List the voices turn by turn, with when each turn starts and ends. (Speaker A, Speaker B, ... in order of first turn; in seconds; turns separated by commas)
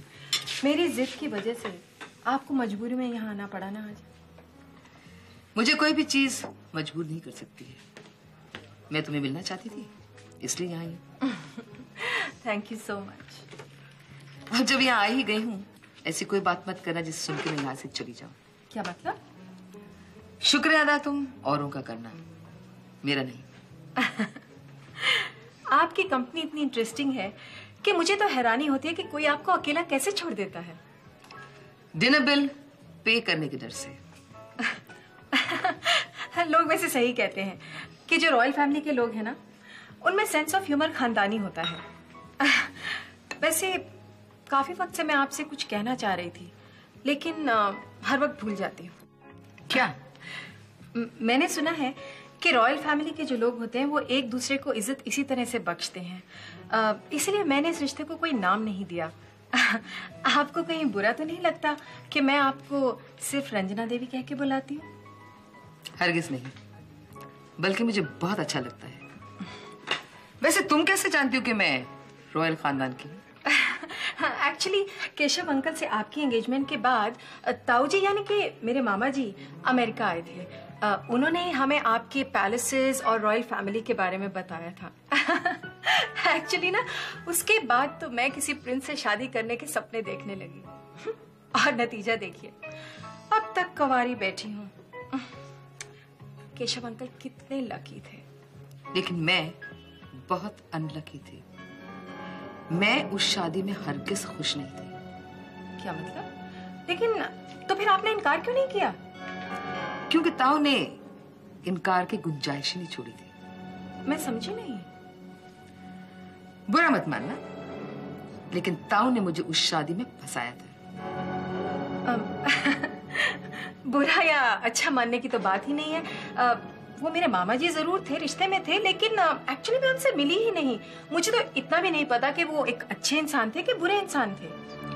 Speaker A: 0.6-4.1, Speaker B: 5.5-7.8, Speaker B: 8.9-11.0, Speaker A: 11.2-13.5, Speaker B: 14.5-18.4, Speaker A: 18.7-19.2, Speaker B: 20.4-22.2, Speaker B: 23.0-23.5, Speaker A: 24.0-24.4, Speaker A: 25.0-30.8, Speaker B: 31.9-34.0, Speaker A: 35.3-39.4, Speaker A: 40.0-41.8, Speaker A: 42.4-43.9, Speaker A: 44.5-46.5, Speaker A: 47.0-49.0, Speaker B: 49.7-50.0, Speaker A: 50.9-64.9, Speaker B: 66.0-66.6, Speaker B: 67.6-69.0, Speaker B: 70.4-73.2, Speaker A: 73.5-92.6, Speaker A: 93.3-95.3, Speaker A: 96.5-98.2, Speaker B: 98.9-99.6, Speaker B: 100.1-101.5, Speaker B: 102.7-105.0, Speaker A: 105.8-106.3, Speaker A: 106.9-109.0, Speaker B: 110.1-111.0, Speaker B: 111.6-113.3, Speaker A: 114.1-114.9, Speaker B: 116.7-117.4, Speaker B: 118.5-120.8, Speaker A: 122.0-134.6